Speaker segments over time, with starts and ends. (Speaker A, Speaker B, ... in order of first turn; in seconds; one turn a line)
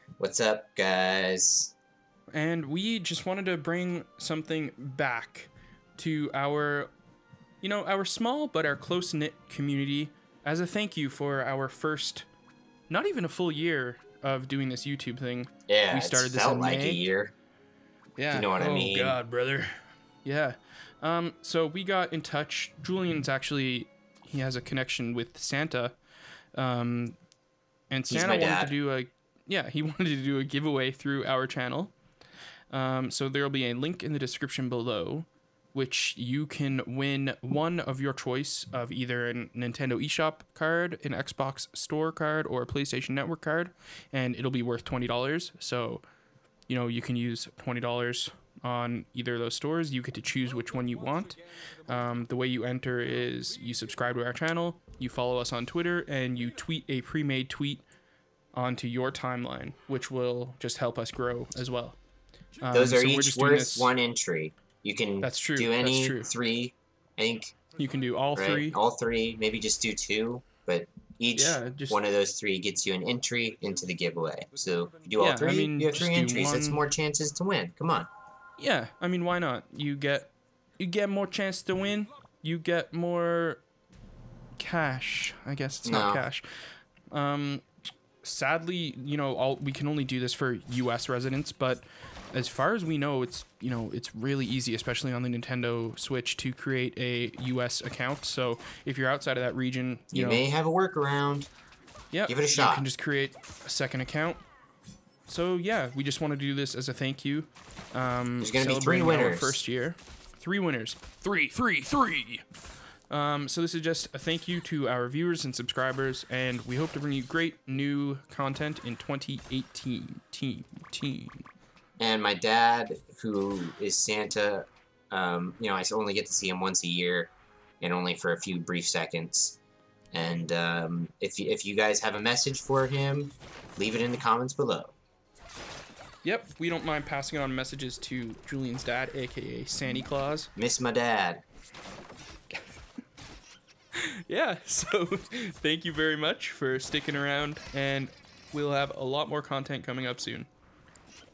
Speaker A: 0.2-1.7
Speaker B: 2.3-6.9
Speaker B: 7.6-12.3
Speaker B: 12.9-17.0
Speaker A: 15.7-17.3
Speaker B: 18.2-26.0
Speaker A: 18.3-19.2
Speaker B: 26.6-27.2
Speaker B: 27.9-31.9
Speaker A: 28.1-28.7
Speaker B: 32.7-46.0
Speaker B: 46.7-57.8
Speaker B: 58.5-62.0
Speaker B: 62.6-63.9
Speaker A: 62.7-67.6
Speaker B: 65.2-66.3
Speaker B: 67.8-68.8
Speaker A: 68.3-78.1
Speaker B: 71.4-72.0
Speaker B: 75.2-76.8
Speaker B: 78.6-83.6
Speaker B: 84.6-86.5
Speaker A: 85.8-86.2
Speaker B: 87.1-87.6
Speaker B: 88.2-100.4
Speaker A: 100.1-101.5
Speaker B: 102.1-104.4
Speaker A: 102.3-102.9
Speaker B: 105.3-112.5
Speaker A: 108.4-109.6
Speaker B: 113.1-121.5
Speaker A: 122.0-129.6
Speaker A: 130.1-134.9
Speaker B: 136.2-140.5
Speaker A: 140.6-141.4
Speaker B: 143.9-150.5